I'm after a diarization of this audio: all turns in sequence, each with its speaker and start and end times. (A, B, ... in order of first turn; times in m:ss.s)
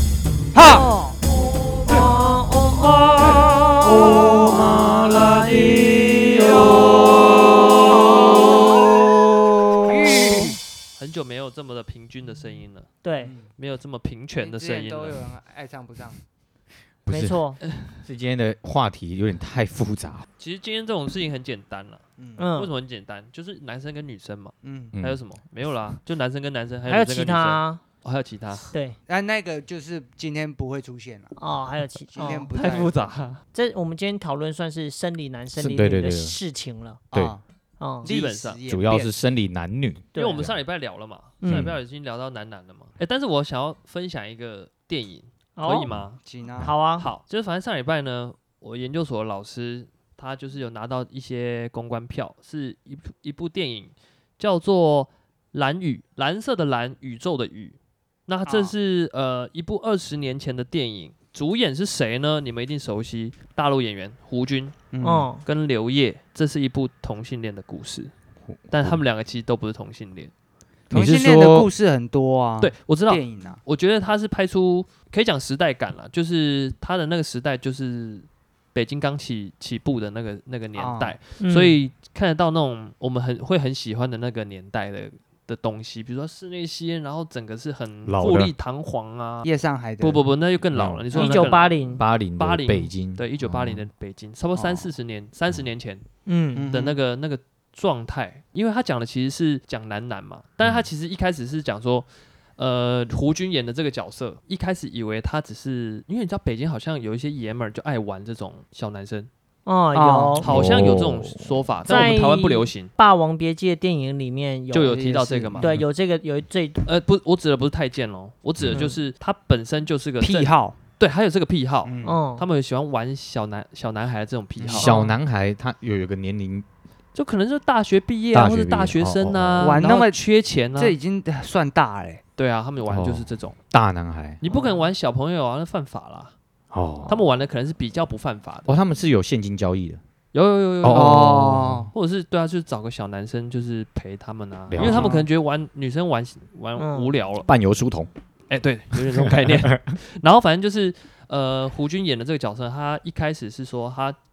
0:00.6-0:01.2 A
0:01.9-0:03.4 B
0:03.9-0:06.8 A
0:05.3-0:05.8 B
0:09.8-0:10.6 A
0:11.0-0:12.9 C
0:13.0-0:13.3 B
0:13.2-0:13.5 A
0:13.6-0:15.2 C
0:14.4-0:16.2 A
0:17.1-0:17.4 D
0:17.1-0:17.6 B
0:18.0-0:20.3 D
0:20.4-0:22.0 C
0:22.4-0:22.7 B
0:22.6-0:28.7 C
0:24.6-0:25.0 A
0:24.9-0:25.2 D
0:26.9-0:27.8 B
0:28.7-0:29.0 B
0:29.1-0:31.3 A
0:31.4-0:32.5 B
0:32.1-0:33.0 A
0:32.3-0:33.4 C
0:33.5-0:37.0 B
0:35.6-0:36.4 D
0:37.1-0:37.4 A
0:37.8-0:38.1 B
0:38.0-0:39.1 A
0:38.0-0:38.6 C
0:38.7-0:40.5 D
0:40.1-0:40.5 B
0:40.2-0:46.2 C
0:41.4-0:41.7 B
0:41.5-0:41.8 D
0:45.6-0:45.9 B
0:46.2-0:46.7 A
0:46.6-0:47.1 B
0:47.0-1:04.8 C
0:58.5-0:58.7 A
1:04.9-1:05.3 A
1:05.0-1:05.4 B
1:05.4-1:08.1 C
1:08.6-1:09.0 D
1:08.7-1:10.3 C
1:10.9-1:11.7 D
1:10.9-1:13.6 A
1:12.6-1:29.5 C
1:20.8-1:21.2 A
1:21.4-1:21.8 B
1:28.1-1:28.5 D
1:29.4-1:30.2 A
1:30.0-1:36.0 C
1:30.7-1:31.1 D
1:31.1-1:31.4 A
1:31.1-1:32.0 B
1:32.0-1:33.8 D
1:34.6-1:34.9 A
1:36.3-1:36.7 B
1:36.6-1:37.0 A
1:36.7-1:49.3 C
1:49.7-1:50.5 B
1:50.0-1:50.4 A
1:50.4-1:52.9 C
1:50.4-1:51.6 D
1:51.9-1:55.0 B
1:54.7-1:55.7 C
1:54.9-1:55.7 A
1:55.6-1:56.8 B
1:56.8-2:04.9 C
1:58.6-1:58.8 D
2:00.2-2:00.8 A
2:01.8-2:02.2 A
2:02.0-2:02.4 B
2:04.6-2:05.0 A
2:04.7-2:06.6 D
2:04.9-2:05.1 B
2:07.2-2:11.0 C
2:08.3-2:09.8 D
2:09.6-2:10.2 A
2:10.8-2:12.2 A
2:12.4-2:13.6 C
2:12.9-2:14.4 D
2:14.4-2:16.3 C
2:14.5-2:14.9 A
2:16.7-2:17.2 D
2:17.1-2:18.8 C
2:18.7-2:20.0 D
2:20.3-2:27.5 C
2:20.8-2:21.9 D
2:20.9-2:21.9 A
2:24.7-2:25.2 D
2:24.8-2:25.3 A
2:26.8-2:27.1 B
2:27.4-2:28.1 D
2:28.5-2:34.2 C
2:29.2-2:29.9 D